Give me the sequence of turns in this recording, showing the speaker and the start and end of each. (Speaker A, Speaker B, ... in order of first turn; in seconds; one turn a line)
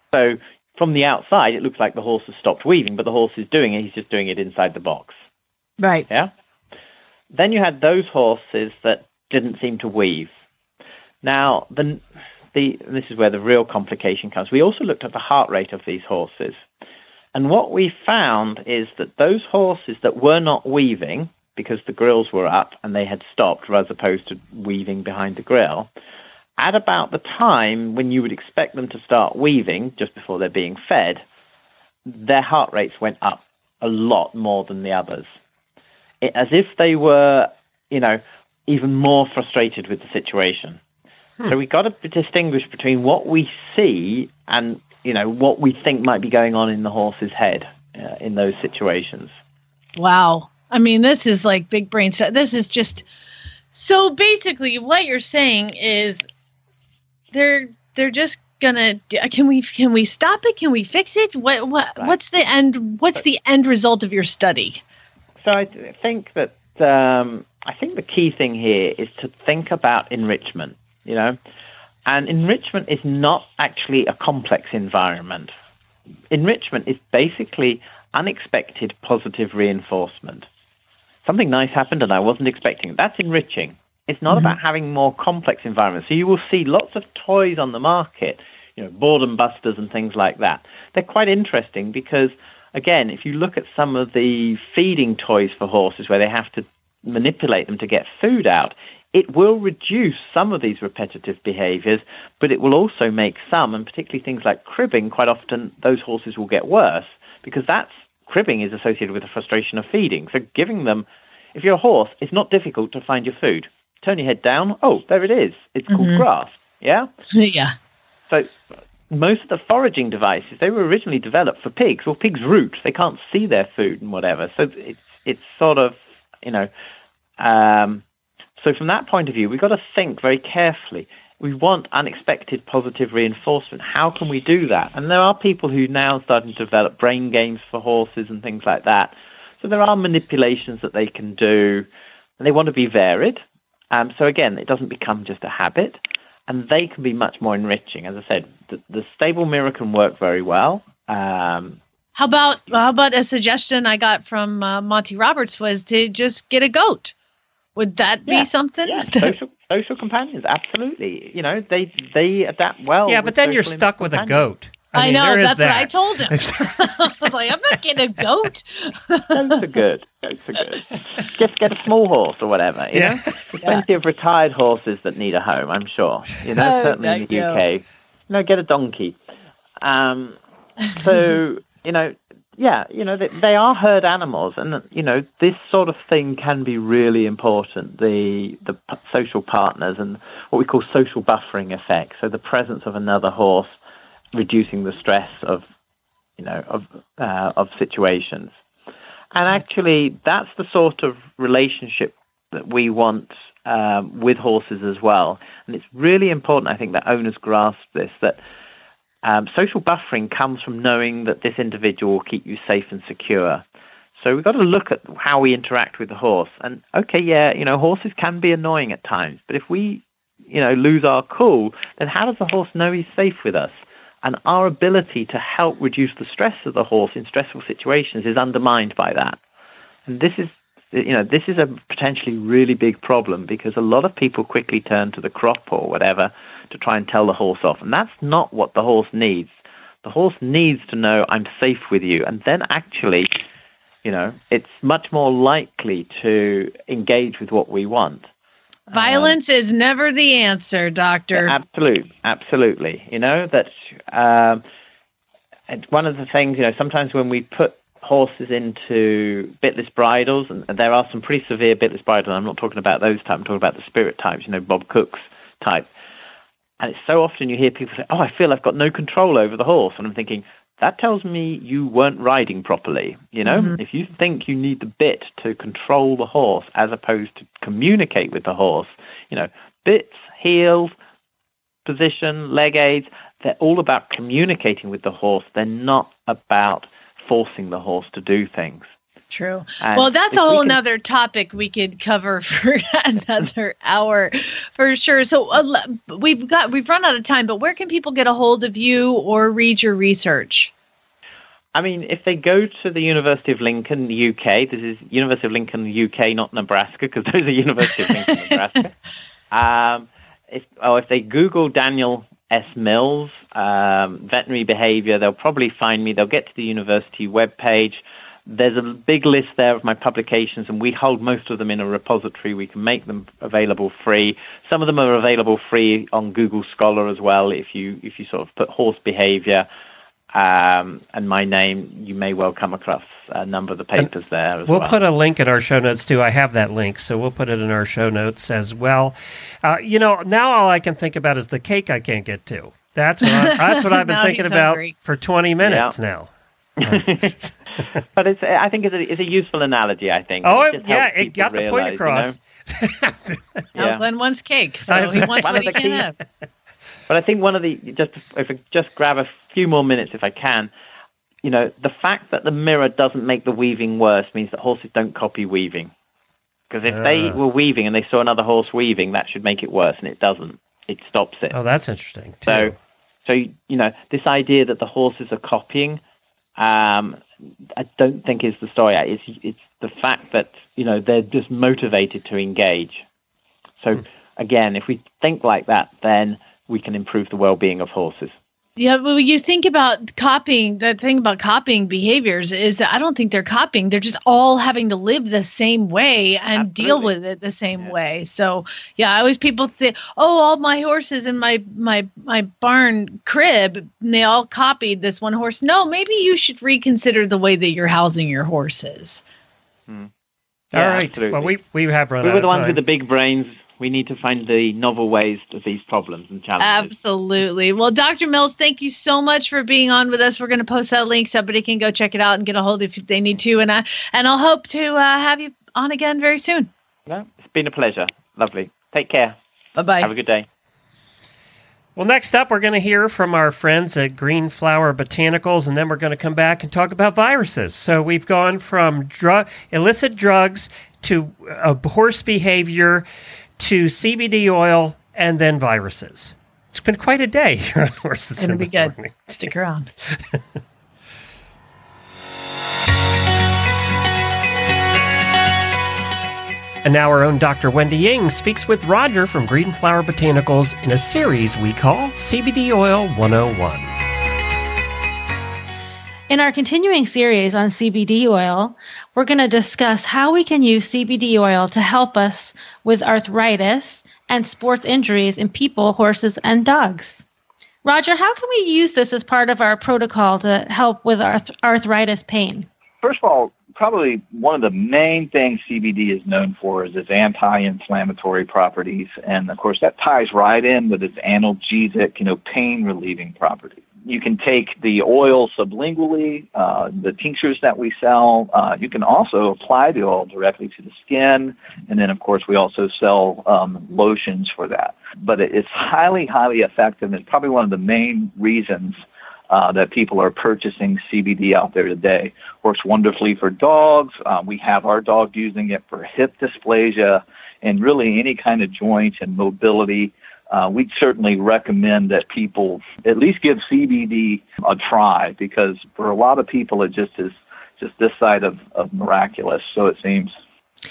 Speaker A: 0.1-5.1
Speaker B: 5.8-6.1
Speaker A: 7.3-10.3
Speaker A: 11.2-12.0
Speaker A: 12.5-16.6
Speaker A: 17.3-25.9
Speaker A: 26.6-31.2
Speaker A: 32.0-35.3
Speaker A: 36.2-40.8
Speaker A: 41.5-49.3
Speaker B: 50.0-53.0
Speaker B: 53.7-56.3
Speaker B: 57.3-64.8
Speaker A: 65.4-71.4
Speaker A: 72.0-75.5
Speaker A: 76.3-80.5
Speaker A: 81.2-117.1
Speaker B: 115.9-116.2
Speaker B: 117.3-117.7
Speaker A: 118.3-118.5
Speaker A: 119.1-126.7
Speaker A: 127.4-128.0
Speaker A: 128.6-141.9
Speaker A: 142.4-151.8
Speaker B: 152.2-157.1
Speaker B: 157.8-159.3
Speaker A: 158.3-164.5
Speaker C: 163.1-166.9
Speaker B: 164.9-169.6
Speaker A: 169.3-179.2
Speaker C: 172.9-173.2
Speaker B: 176.6-177.6
Speaker A: 179.8-180.4
Speaker A: 181.0-193.7
Speaker A: 194.3-195.6
Speaker A: 196.4-198.5
Speaker A: 199.3-208.4
Speaker A: 209.2-213.6
Speaker A: 214.2-229.4
Speaker A: 230.1-239.5
Speaker A: 240.0-243.4
Speaker A: 244.0-248.3
Speaker A: 248.9-249.4
Speaker B: 248.9-251.5
Speaker A: 251.3-254.6
Speaker A: 255.7-265.9
Speaker A: 266.8-280.9
Speaker B: 273.4-273.7
Speaker A: 281.8-288.9
Speaker B: 289.3-300.7
Speaker A: 289.8-290.8
Speaker A: 301.7-308.9
Speaker A: 309.5-329.7
Speaker A: 330.3-335.0
Speaker C: 334.6-346.3
Speaker B: 343.4-344.9
Speaker A: 345.6-345.9
Speaker A: 346.8-347.3
Speaker C: 346.8-347.5
Speaker A: 348.1-352.4
Speaker C: 350.4-353.6
Speaker A: 353.7-354.0
Speaker B: 353.8-356.1
Speaker C: 354.9-356.1
Speaker A: 354.9-356.0
Speaker A: 357.1-360.7
Speaker A: 361.4-365.9
Speaker A: 366.7-371.6
Speaker C: 366.9-367.4
Speaker C: 371.5-372.8
Speaker A: 372.4-372.7
Speaker A: 373.2-376.0
Speaker A: 376.6-377.2
Speaker A: 377.7-383.0
Speaker A: 383.8-388.3
Speaker B: 388.8-409.2
Speaker A: 396.6-397.1
Speaker A: 410.7-411.6
Speaker C: 410.7-412.8
Speaker A: 412.2-416.9
Speaker B: 416.6-426.7
Speaker A: 427.1-429.4
Speaker B: 429.8-430.1
Speaker A: 430.0-430.5
Speaker C: 431.9-443.1
Speaker C: 443.6-449.4
Speaker B: 448.4-449.9
Speaker C: 456.8-463.9
Speaker D: 466.3-477.2
Speaker D: 477.8-482.7
Speaker E: 483.0-530.3